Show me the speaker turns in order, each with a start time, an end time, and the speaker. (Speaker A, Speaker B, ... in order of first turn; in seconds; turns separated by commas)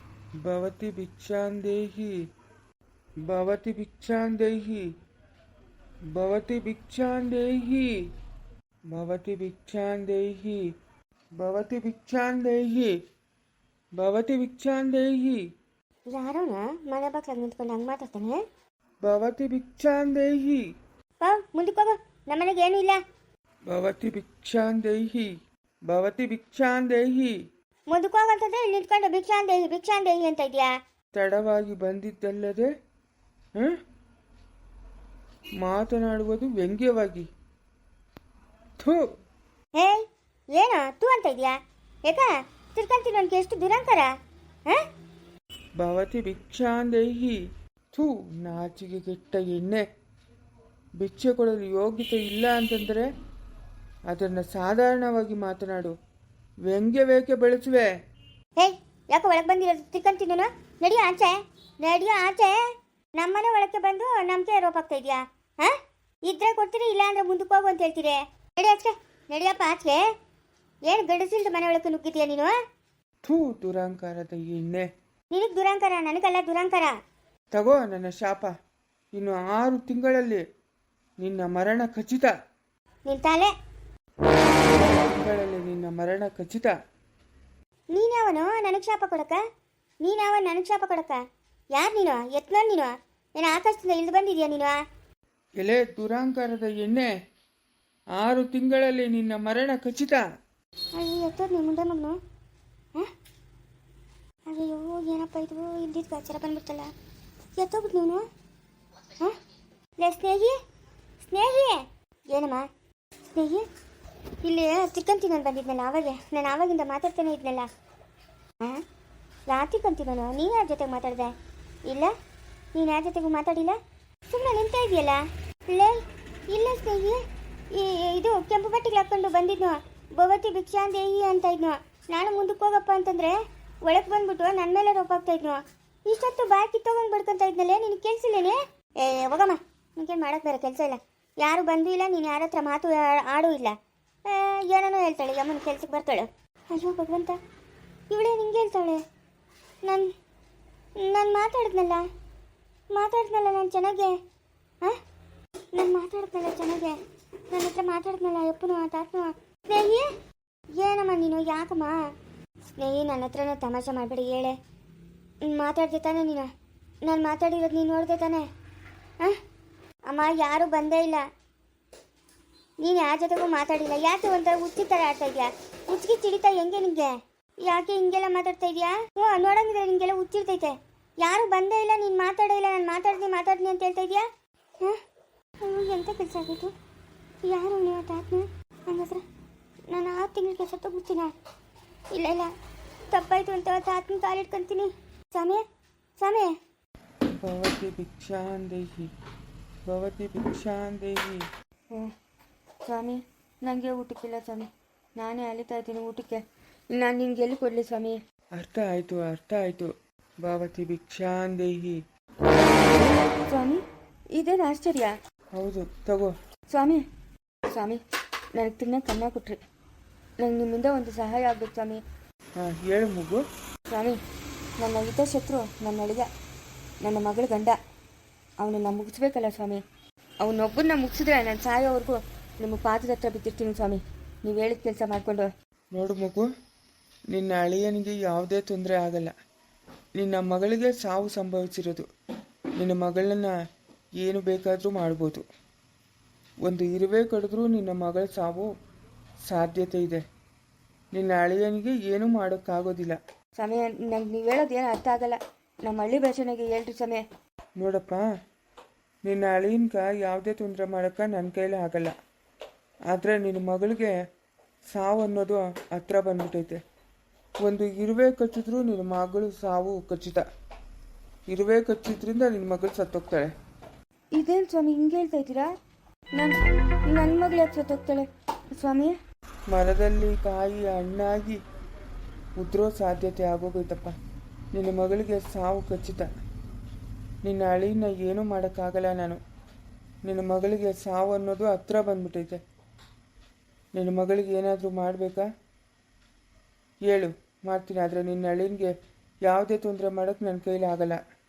Speaker A: 0.4-2.1, Speaker A: 3.3-4.8, Speaker A: 6.1-7.9, Speaker A: 8.9-10.6, Speaker A: 11.4-12.9, Speaker A: 14.0-15.4, Speaker B: 16.1-18.4, Speaker A: 19.0-20.6, Speaker B: 21.2-23.0, Speaker A: 23.7-25.3, Speaker A: 25.9-27.3, Speaker B: 27.9-30.7, Speaker A: 31.1-32.7, Speaker A: 35.6-37.3, Speaker B: 39.8-40.0, Speaker B: 40.5-41.5, Speaker B: 42.0-44.1, Speaker A: 45.8-47.4, Speaker A: 47.9-49.8, Speaker A: 51.0-53.1, Speaker A: 54.1-55.9, Speaker A: 56.6-57.9, Speaker B: 58.6-62.6, Speaker B: 63.2-65.7, Speaker B: 66.2-70.0, Speaker B: 70.8-72.5, Speaker A: 73.2-74.9, Speaker B: 75.3-76.9, Speaker A: 77.5-78.5, Speaker A: 79.1-80.4, Speaker A: 81.2-82.3, Speaker B: 83.0-83.5, Speaker A: 84.7-86.7, Speaker B: 87.9-89.4, Speaker B: 90.0-91.2, Speaker B: 91.7-94.7, Speaker A: 95.6-97.1, Speaker A: 98.2-100.2, Speaker B: 101.0-102.2, Speaker B: 104.5-106.9, Speaker B: 107.6-108.2, Speaker B: 110.0-110.5, Speaker B: 111.2-112.7, Speaker B: 113.3-113.6, Speaker B: 114.4-117.7, Speaker B: 119.5-121.3, Speaker B: 122.7-123.8, Speaker B: 124.3-126.0, Speaker B: 126.5-127.2, Speaker B: 127.7-143.7, Speaker B: 144.2-147.4, Speaker B: 148.1-149.0, Speaker B: 149.8-150.1, Speaker B: 151.0-152.0, Speaker B: 152.9-154.1, Speaker B: 155.7-156.9, Speaker B: 157.5-160.1, Speaker B: 160.8-162.0, Speaker B: 162.8-164.6, Speaker B: 165.4-166.5, Speaker B: 167.1-168.4, Speaker B: 170.1-171.2, Speaker B: 172.8-184.2, Speaker B: 185.6-186.7, Speaker B: 187.4-189.2, Speaker B: 189.9-191.3, Speaker B: 192.1-192.5, Speaker B: 193.1-195.6, Speaker B: 196.2-196.5, Speaker A: 197.4-199.1, Speaker A: 199.8-201.4, Speaker C: 202.9-208.2, Speaker A: 208.6-209.9, Speaker A: 210.4-212.0, Speaker C: 213.3-213.8, Speaker C: 214.3-215.1, Speaker A: 215.5-216.3, Speaker C: 216.7-217.0, Speaker C: 217.7-218.0, Speaker C: 218.6-219.6, Speaker C: 220.4-222.0, Speaker A: 222.6-223.4, Speaker C: 223.9-224.2, Speaker C: 224.8-226.3, Speaker C: 227.0-227.8, Speaker C: 228.6-229.8, Speaker C: 230.4-235.5, Speaker A: 235.9-236.5, Speaker A: 237.3-239.3, Speaker A: 240.2-242.1, Speaker A: 242.8-243.6, Speaker A: 244.2-245.4, Speaker A: 246.6-248.7, Speaker A: 249.4-250.2, Speaker A: 251.1-253.2, Speaker C: 253.6-257.2, Speaker A: 257.8-258.3, Speaker A: 259.2-262.1, Speaker A: 263.1-264.2, Speaker A: 264.9-266.8, Speaker A: 267.6-270.4, Speaker A: 271.5-273.5, Speaker C: 274.3-275.7, Speaker C: 277.1-279.1, Speaker A: 279.7-281.6, Speaker A: 282.6-284.2, Speaker A: 284.7-286.3, Speaker A: 287.4-289.4, Speaker A: 290.2-292.6, Speaker A: 293.9-295.5, Speaker A: 297.0-301.2